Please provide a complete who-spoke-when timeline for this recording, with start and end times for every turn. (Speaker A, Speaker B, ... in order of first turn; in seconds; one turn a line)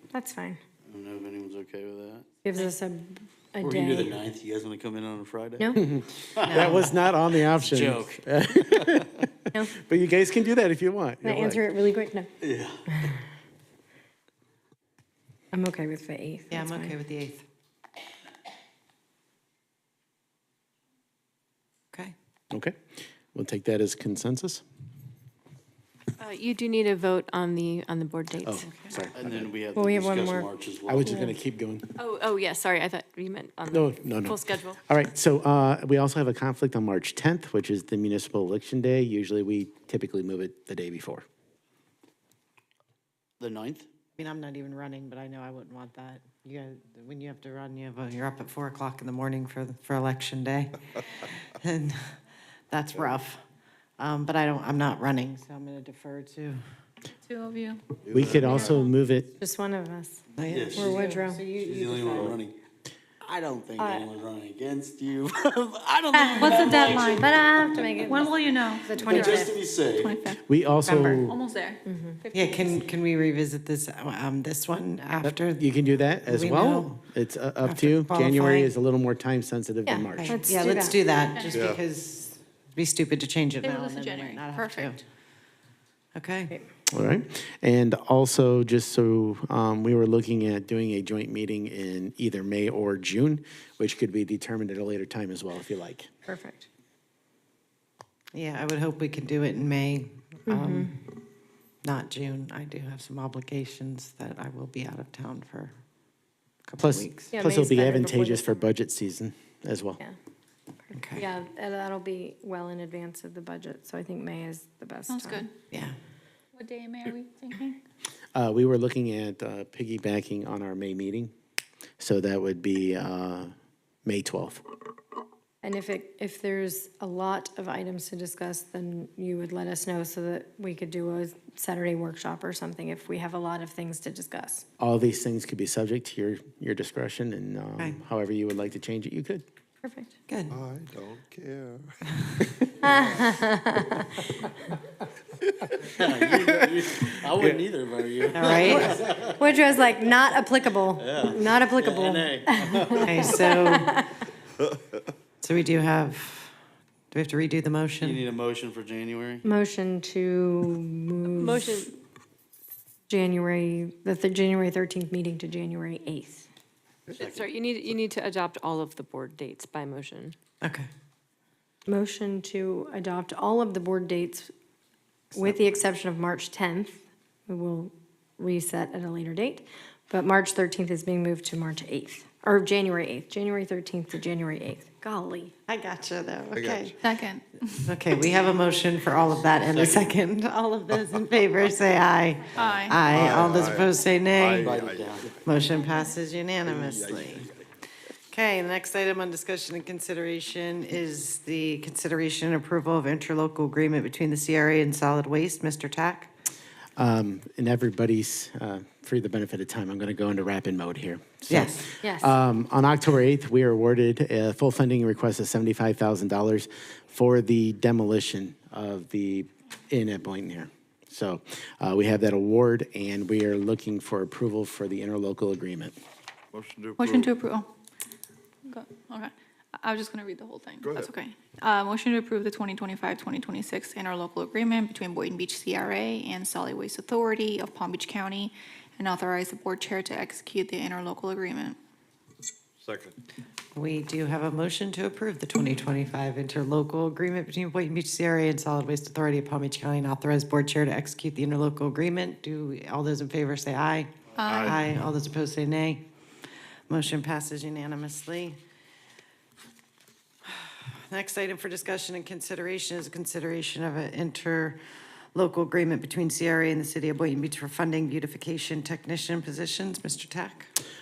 Speaker A: 0.1-0.6
Speaker B: 0.9-2.3
Speaker A: 2.4-4.2
Speaker B: 3.6-5.7
Speaker C: 5.8-11.7
Speaker B: 6.4-6.7
Speaker D: 6.4-6.9
Speaker B: 7.4-9.1
Speaker A: 11.2-12.3
Speaker B: 12.4-12.8
Speaker A: 15.5-16.9
Speaker D: 16.5-17.4
Speaker C: 23.3-24.6
Speaker E: 26.2-28.7
Speaker C: 28.4-29.5
Speaker D: 28.7-28.9
Speaker B: 29.2-31.2
Speaker A: 29.8-30.5
Speaker C: 30.9-31.9
Speaker E: 32.0-34.8
Speaker C: 33.7-41.2
Speaker B: 43.4-43.9
Speaker D: 44.2-52.2
Speaker D: 52.7-53.4
Speaker D: 54.0-56.6
Speaker F: 57.3-57.8
Speaker C: 58.1-59.3
Speaker B: 58.1-58.7
Speaker A: 59.4-61.4
Speaker D: 60.4-62.4
Speaker B: 60.5-62.6
Speaker B: 63.2-67.9
Speaker A: 63.8-64.0
Speaker A: 66.2-69.5
Speaker F: 66.3-67.3
Speaker F: 68.0-69.4
Speaker B: 69.0-70.2
Speaker F: 70.0-70.4
Speaker C: 70.4-71.4
Speaker D: 70.9-71.2
Speaker F: 71.2-72.8
Speaker A: 71.9-72.2
Speaker D: 72.3-75.7
Speaker C: 75.2-80.7
Speaker D: 76.3-77.0
Speaker D: 77.6-78.7
Speaker A: 79.9-81.0
Speaker D: 80.1-85.0
Speaker F: 81.3-81.7
Speaker G: 81.5-81.8
Speaker F: 83.6-85.0
Speaker D: 86.2-86.5
Speaker C: 86.9-96.1
Speaker A: 96.3-96.7
Speaker D: 98.3-101.0
Speaker A: 100.5-100.9
Speaker D: 101.8-105.8
Speaker D: 106.7-107.3
Speaker C: 106.8-110.0
Speaker A: 107.3-108.7
Speaker D: 110.9-111.3
Speaker A: 111.2-115.5
Speaker F: 115.1-115.5
Speaker F: 116.5-117.8
Speaker C: 118.3-121.3
Speaker C: 122.0-123.5
Speaker C: 124.1-124.6
Speaker A: 125.6-134.7
Speaker C: 134.8-139.4
Speaker A: 139.8-140.1
Speaker D: 140.3-140.6
Speaker G: 140.5-141.9
Speaker D: 142.2-142.5
Speaker A: 142.8-144.1
Speaker B: 142.8-143.4
Speaker B: 145.9-149.4
Speaker D: 148.3-148.9
Speaker A: 148.6-153.8
Speaker B: 151.0-153.3
Speaker D: 153.0-154.0
Speaker D: 155.4-156.5
Speaker D: 157.1-158.2
Speaker B: 158.0-159.4
Speaker A: 159.4-161.7
Speaker E: 161.3-161.9
Speaker A: 163.1-166.5
Speaker B: 167.2-167.4
Speaker E: 167.2-170.4
Speaker D: 170.6-170.9
Speaker A: 171.9-174.5
Speaker A: 175.3-185.5
Speaker D: 185.7-187.0
Speaker G: 186.5-187.0
Speaker F: 187.0-188.0
Speaker D: 187.9-194.8
Speaker B: 189.2-190.1
Speaker F: 192.6-193.1
Speaker G: 192.6-195.3
Speaker B: 194.5-195.4
Speaker D: 195.4-197.5
Speaker G: 196.6-197.6
Speaker D: 198.3-206.3
Speaker C: 207.0-225.9
Speaker D: 211.5-211.9
Speaker A: 212.0-212.3
Speaker G: 226.5-227.3
Speaker F: 227.0-227.7
Speaker F: 228.7-241.8
Speaker G: 230.8-231.1
Speaker G: 242.8-243.1
Speaker D: 243.8-256.1
Speaker F: 254.4-254.8
Speaker G: 254.4-254.8
Speaker D: 256.9-258.6
Speaker D: 260.4-264.8
Speaker D: 265.4-270.7